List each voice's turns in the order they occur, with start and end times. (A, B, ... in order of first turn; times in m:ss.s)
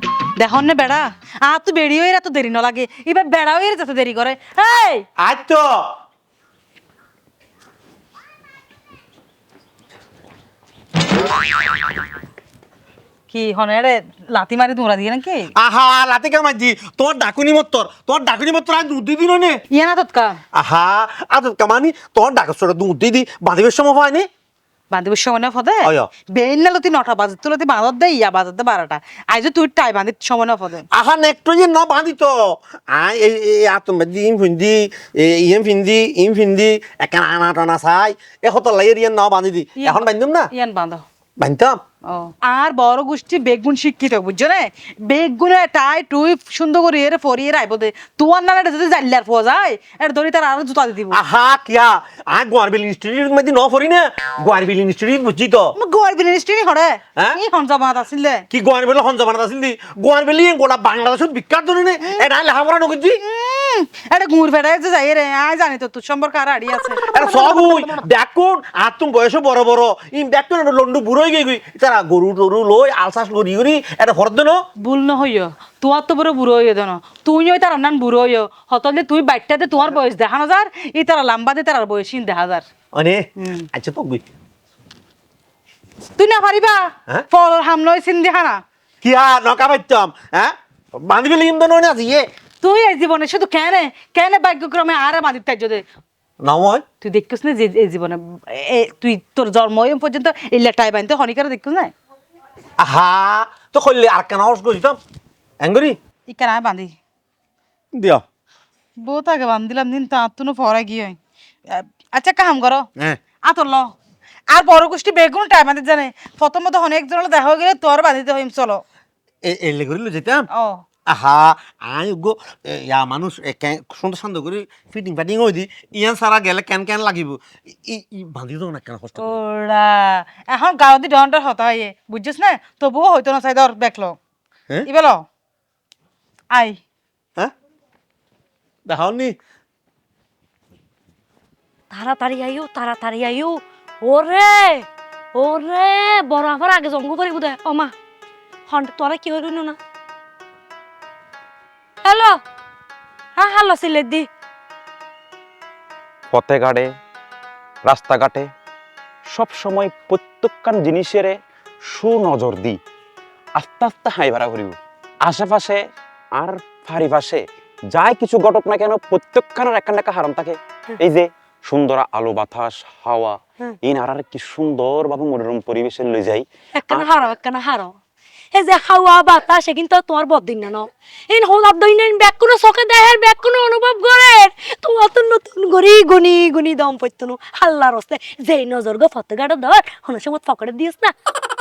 0:00.4-0:05.0 A
0:05.2-0:05.7 B
0:13.3-0:15.4 A
0:15.6-0:19.6 B
0:19.7-0:20.4 A
0:20.5-0:24.3 B
0:24.9-0:30.8 A
0:25.8-0:26.1 B
0:30.9-0:40.5 B
0:39.8-0:41.0 A
0:41.4-0:41.8 B
0:42.1-0:51.2 A
0:51.1-0:55.7 B
0:55.8-0:58.4 A
0:58.5-1:03.2 B
1:03.2-1:07.3 A
1:07.1-1:14.6 B
1:14.8-1:22.6 A
1:22.9-1:24.2 B
1:23.4-1:23.6 A
1:26.2-1:28.6 A
1:29.0-1:32.3 B
1:32.6-1:35.8 A
1:36.4-1:36.8 B
1:37.0-1:41.9 A
1:42.8-1:45.0 B
1:45.6-1:46.0 B
1:46.3-1:46.9 A
1:47.9-1:48.2 B
1:49.0-1:52.9 A
1:53.4-1:53.9 A
1:54.5-1:58.8 A
1:59.4-2:00.4 B
2:00.5-2:00.8 A
2:01.1-2:09.4 B
2:09.2-2:14.2 A
2:14.9-2:15.2 A
2:16.5-2:16.8 A
2:18.8-2:19.4 B
2:21.9-2:27.9 C
2:28.7-2:29.8 C
2:32.0-2:32.3 C
2:33.4-2:34.2 C
2:36.3-2:36.9 D
2:37.8-2:38.5 D
2:39.3-2:41.3 D
2:41.9-2:42.8 D
2:43.6-2:45.8 D
2:46.4-2:47.4 D
2:47.9-2:57.1 D
2:56.8-2:57.9 C
2:58.5-3:11.1 C